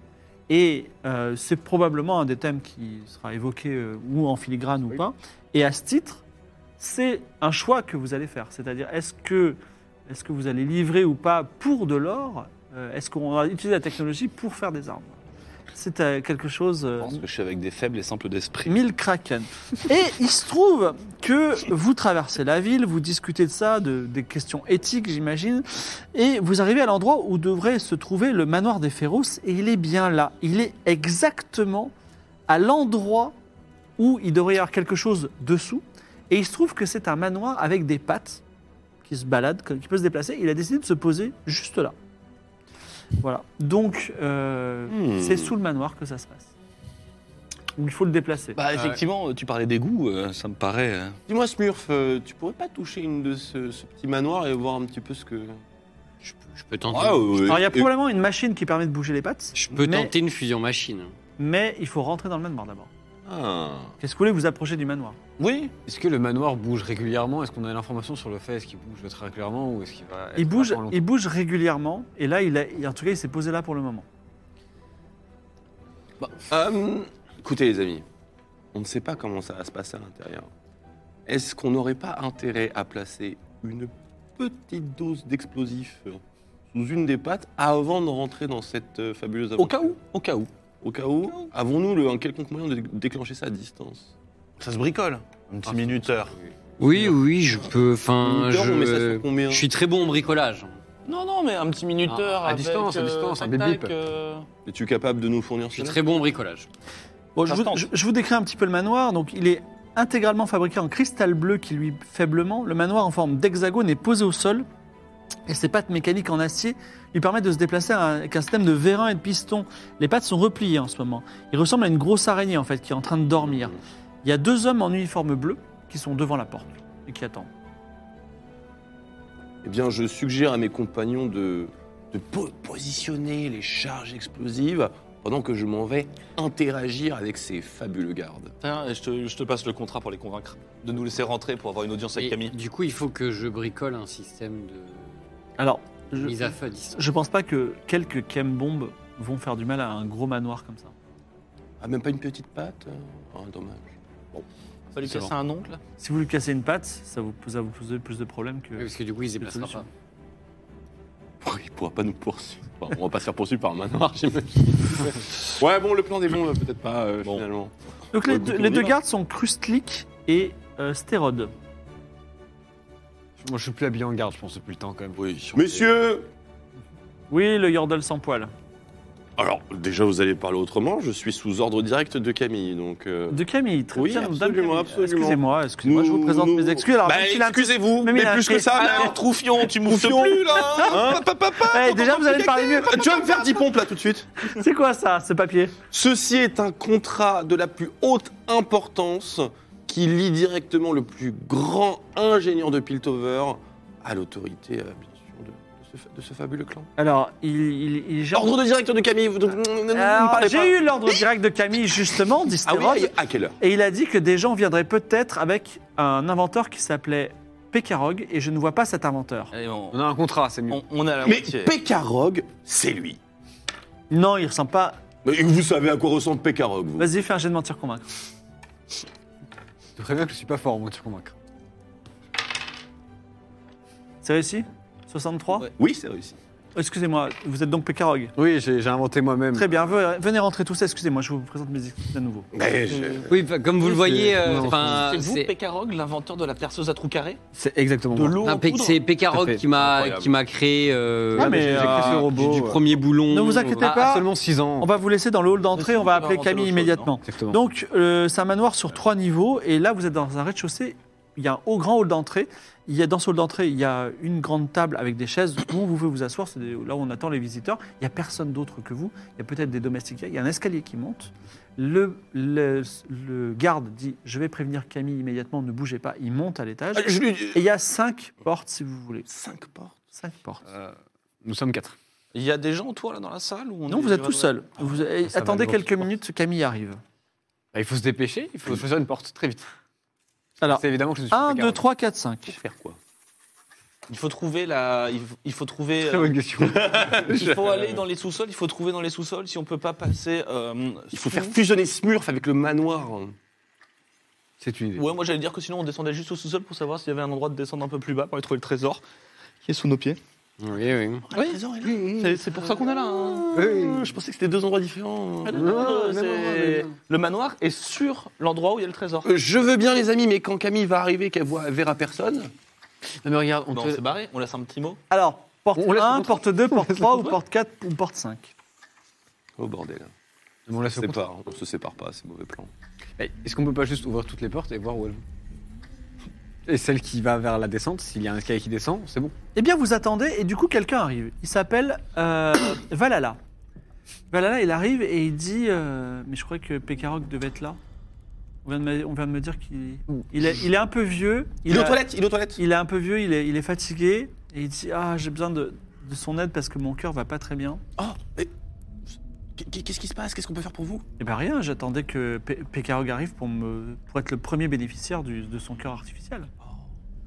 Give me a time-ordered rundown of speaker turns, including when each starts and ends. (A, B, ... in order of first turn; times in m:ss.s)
0:00.5-0:06.2 A
0:06.8-0:15.2 A
0:15.7-0:17.2 A
0:17.0-0:18.8 B
0:18.6-0:31.9 A
0:32.5-0:33.3 A
0:34.0-0:38.4 A
0:39.0-0:41.9 A
0:43.2-0:46.5 A
0:44.9-0:45.5 C
0:47.8-0:48.6 A
0:48.6-0:51.2 B
0:51.3-0:55.6 C
0:56.2-0:57.5 D
0:56.9-0:57.9 C
0:57.5-1:00.1 A
0:59.5-1:01.1 D
1:01.4-1:02.9 A
1:03.2-1:03.9 C
1:04.0-1:05.2 A
1:05.4-1:05.7 B
1:05.8-1:11.0 E
1:10.4-1:14.0 A
1:16.2-1:18.0 C
1:18.7-1:20.5 C
1:21.2-1:26.2 C
1:26.7-1:30.0 C
1:29.6-1:30.5 B
1:30.8-1:34.1 C
1:34.6-1:36.3 B
1:36.8-1:40.8 D
1:38.2-1:39.6 C
1:41.0-1:44.5 B
1:42.1-1:43.9 E
1:44.6-1:46.0 C
1:45.7-1:46.7 D
1:47.4-1:47.9 B
1:47.5-1:54.6 A
1:55.5-2:07.5 A
2:09.6-2:18.5 C
2:18.6-2:22.5 B
2:22.2-2:25.2 D
2:25.6-2:30.9 A
2:26.1-2:27.0 D
2:31.8-2:34.4 C
2:34.9-2:35.8 B
2:36.0-2:38.9 A
2:38.8-2:39.9 D
2:39.4-2:39.8 A
2:41.4-2:49.0 C
2:48.1-2:51.5 A
2:53.4-2:55.2 E
2:55.2-2:56.3 C
2:57.3-2:58.5 A
2:59.4-3:09.2 C
3:03.3-3:09.0 A
3:08.7-3:11.2 B
3:09.7-3:14.3 C
3:10.8-3:13.6 A
3:14.5-3:15.7 A
3:15.9-3:26.9 C
3:27.0-3:28.6 A
3:28.3-3:31.2 C
3:29.9-3:39.5 A
3:32.6-3:33.6 C
3:39.5-3:40.0 B
3:39.9-3:40.8 E
3:40.7-3:41.7 B
3:41.2-3:43.2 C
3:44.1-3:45.0 A
3:45.2-3:47.1 C
3:47.0-3:48.1 A
3:50.0-3:51.3 E
3:54.2-3:55.7 A
3:55.7-3:56.4 C
3:56.7-3:58.3 A
3:58.4-3:59.7 E
3:59.5-4:02.5 A
4:02.5-4:03.3 C
4:02.9-4:03.3 B
4:03.3-4:05.5 D
4:03.8-4:05.0 E
4:04.5-4:07.4 B
4:07.5-4:08.4 E
4:08.1-4:09.0 B
4:08.4-4:14.1 D
4:09.3-4:09.6 E
4:09.8-4:10.3 B
4:11.3-4:12.8 E
4:11.4-4:12.2 A
4:13.3-4:14.3 A
4:13.8-4:14.9 E
4:14.8-4:39.2 A
4:15.7-4:17.1 B
4:17.2-4:17.6 E
4:36.9-4:37.6 C
4:39.3-4:40.0 C
4:40.2-4:40.6 A
4:40.6-4:41.9 E
4:42.3-4:44.5 B
4:43.9-4:47.0 A
4:45.2-4:46.1 E
4:47.7-4:49.7 E
4:50.6-4:52.6 A
4:50.7-4:51.8 E
4:52.5-4:53.0 C
4:54.1-4:56.3 B
4:56.0-4:57.2 E
4:56.6-4:58.0 C
4:57.3-5:01.5 B
5:01.1-5:03.4 C
5:04.6-5:05.1 E
5:05.0-5:09.0 B
5:09.6-5:10.2 B
5:10.6-5:11.3 D
5:11.3-5:15.6 C
5:11.3-5:13.5 B
5:11.8-5:12.2 E
5:13.5-5:14.0 E
5:15.4-5:19.3 B
5:15.5-5:16.9 E
5:19.2-5:22.5 C
5:23.2-5:24.0 E
5:23.7-5:25.0 B
5:25.1-5:28.5 A
5:25.8-5:27.3 E
5:29.6-5:30.1 C
5:30.7-5:31.2 E
5:30.9-5:32.7 C
5:33.2-5:35.2 E
5:36.6-5:39.3 E
5:39.5-5:43.4 A
5:44.3-5:47.8 A
5:48.6-5:52.0 A
5:51.7-5:52.6 C
5:52.6-5:57.8 A
5:58.0-5:58.5 C
5:59.6-6:01.0 C
6:01.2-6:06.5 A